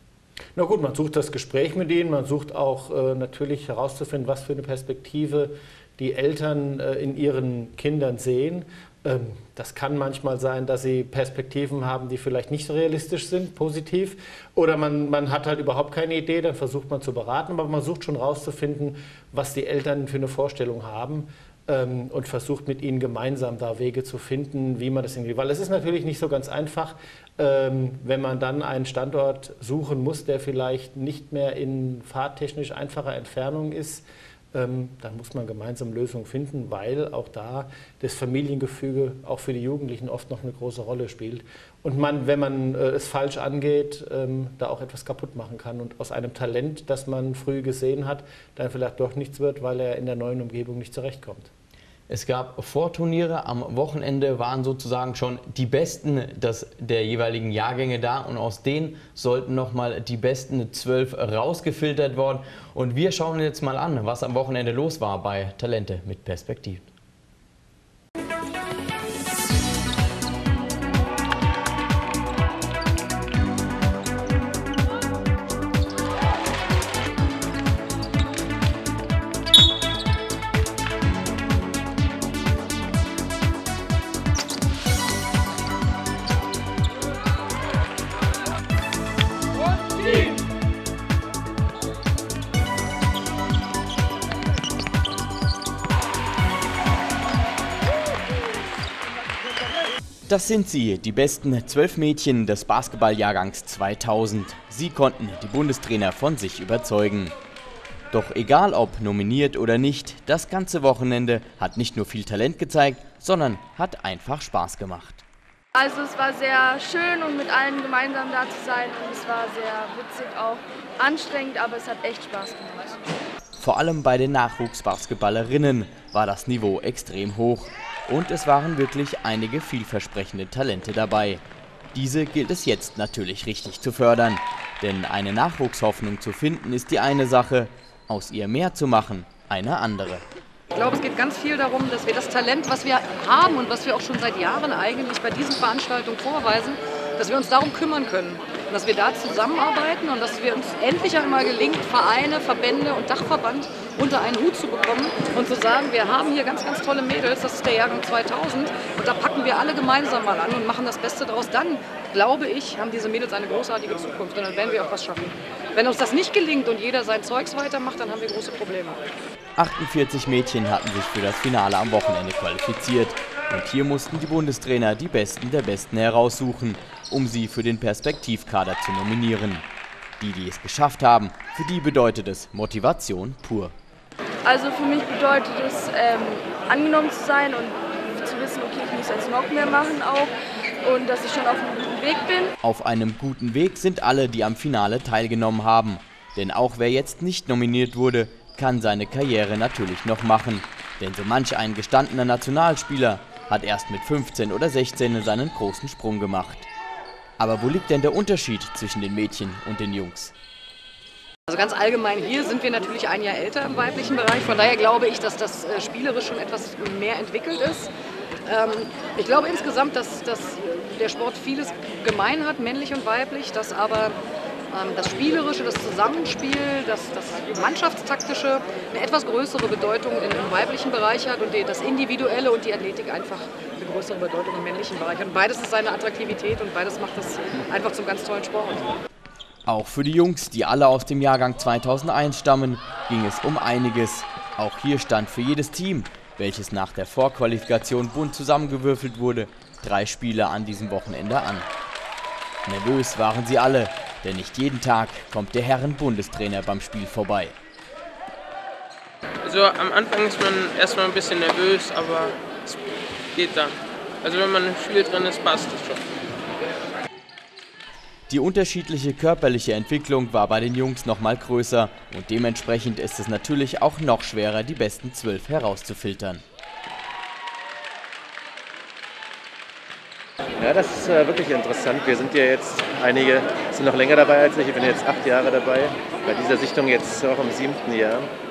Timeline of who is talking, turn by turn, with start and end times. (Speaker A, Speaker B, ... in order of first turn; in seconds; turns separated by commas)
Speaker A: 0.6-51.5, Speaker B: 52.1-66.8, Speaker B: 100.3-107.3, Speaker B: 108.1-115.2, Speaker C: 115.8-123.2, Speaker B: 123.6-131.4, Speaker B: 131.9-140.2, Speaker D: 140.7-169.0, Speaker B: 169.6-179.7, Speaker B: 180.2-183.7, Speaker C: 184.4-192.5, Speaker B: 192.6-206.7, Speaker B: 207.4-210.3, Speaker D: 211.5-217.9, Speaker D: 218.5-224.2, Speaker D: 224.7-239.0, Speaker B: 239.7-251.7, Speaker B: 252.7-257.6, Speaker E: 259.4-262.8, Speaker E: 263.4-266.0, Speaker B: 268.3-276.4, Speaker F: 280.6-288.3